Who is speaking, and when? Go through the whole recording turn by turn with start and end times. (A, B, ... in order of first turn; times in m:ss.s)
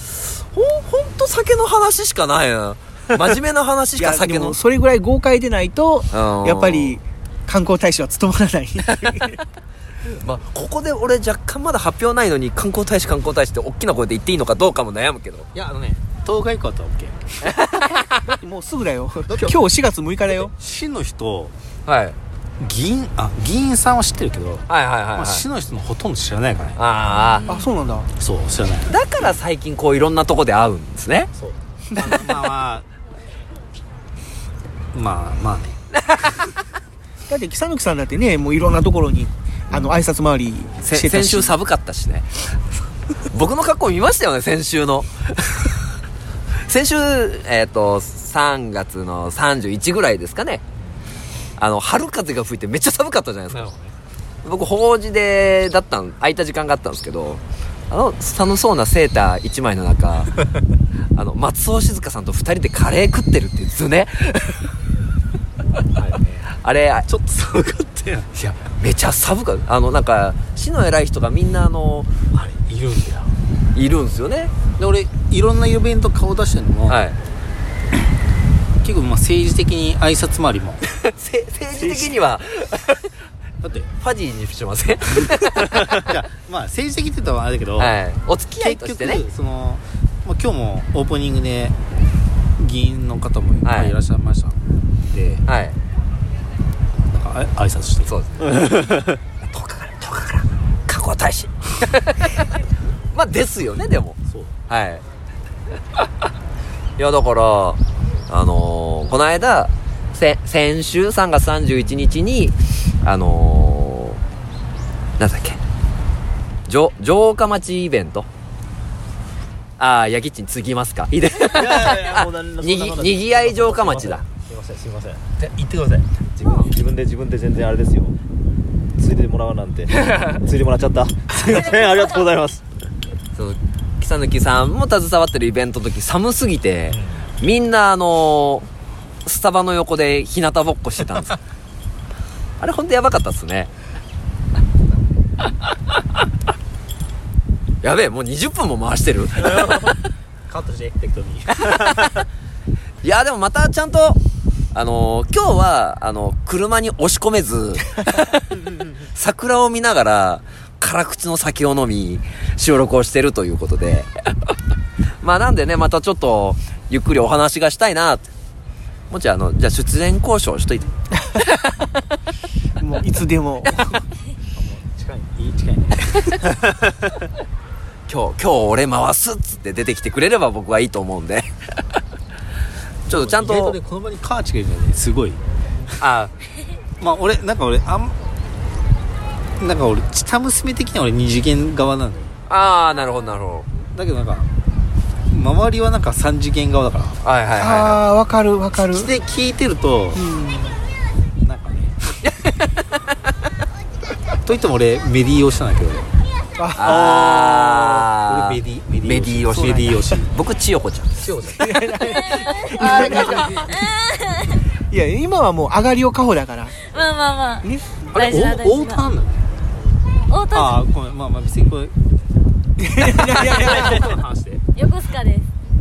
0:00.5-0:04.6 A
0:04.0-0:09.3 B
0:06.1-0:07.0 A
0:10.2-0:15.5 A
0:15.6-0:17.2 C
0:17.4-0:18.2 A
0:18.3-0:20.5 B
0:19.3-0:19.6 C
0:20.5-0:21.5 C
0:21.9-0:22.2 A
0:22.6-0:26.8 C
0:24.7-0:25.5 A
0:26.8-0:27.5 A
0:27.5-0:28.1 B
0:28.2-0:28.9 C
0:28.9-0:31.3 A
0:31.4-0:32.9 C
0:34.9-0:35.8 C
0:35.9-0:36.3 A
0:37.3-0:41.5 B
0:40.8-0:42.3 A
0:43.3-0:45.5 A
0:46.7-0:50.6 A
0:51.6-0:53.7 A
0:53.5-0:54.0 C
0:54.4-1:00.3 A
1:01.2-1:04.6 A
1:06.0-1:06.4 C
1:06.5-1:07.1 A
1:07.1-1:08.6 C
1:08.8-1:12.1 A
1:12.3-1:13.3 C
1:13.8-1:14.6 A
1:14.8-1:17.0 C
1:16.9-1:17.2 A
1:18.8-1:20.8 C
1:21.1-1:23.0 A
1:21.7-1:22.1 C
1:23.6-1:23.9 C
1:24.0-1:26.0 A
1:25.6-1:28.0 C
1:27.8-1:29.2 A
1:28.6-1:31.8 C
1:32.6-1:35.4 C
1:33.6-1:34.0 A
1:35.5-1:35.8 A
1:37.1-1:38.2 C
1:38.1-1:42.5 A
1:43.1-1:45.0 A
1:44.3-1:44.5 C
1:47.0-1:54.2 A
1:55.2-1:55.6 A
1:56.7-1:58.3 A
1:59.8-2:04.2 A
2:01.5-2:05.2 D
2:05.4-2:06.5 C
2:06.4-2:08.1 D
2:09.0-2:12.6 D
2:10.0-2:10.4 A
2:13.4-2:18.7 A
2:19.2-2:21.3 A
2:22.6-2:23.7 A
2:27.8-2:29.9 A
2:30.5-2:32.1 C
2:31.7-2:32.1 A
2:33.0-2:34.2 A
2:34.7-2:38.4 A
2:39.1-2:44.1 A
2:45.2-2:48.3 A
2:49.1-2:50.9 A
2:52.8-2:54.0 B
2:54.6-2:56.9 C
2:58.1-3:01.5 A
3:03.1-3:03.8 A
3:03.1-3:05.4 C
3:06.0-3:06.3 A
3:07.0-3:08.2 C
3:09.6-3:12.3 C
3:12.5-3:13.7 A
3:13.9-3:14.5 C
3:15.3-3:17.2 C
3:17.2-3:18.0 A
3:17.6-3:19.1 B
3:18.8-3:20.2 C
3:20.2-3:20.8 B
3:21.4-3:22.0 C
3:24.4-3:26.1 C
3:26.6-3:27.2 B
3:26.8-3:31.2 A
3:27.1-3:30.3 C
3:31.2-3:32.0 C
3:31.6-3:33.6 B
3:32.1-3:34.6 E
3:32.6-3:33.9 C
3:34.9-3:36.8 B
3:36.9-3:39.0 E
3:37.6-3:38.1 B
3:38.1-3:39.5 C
3:40.3-3:40.8 E
3:40.5-3:41.9 C
3:42.8-3:44.1 B
3:43.0-3:44.6 C
3:44.8-3:45.5 E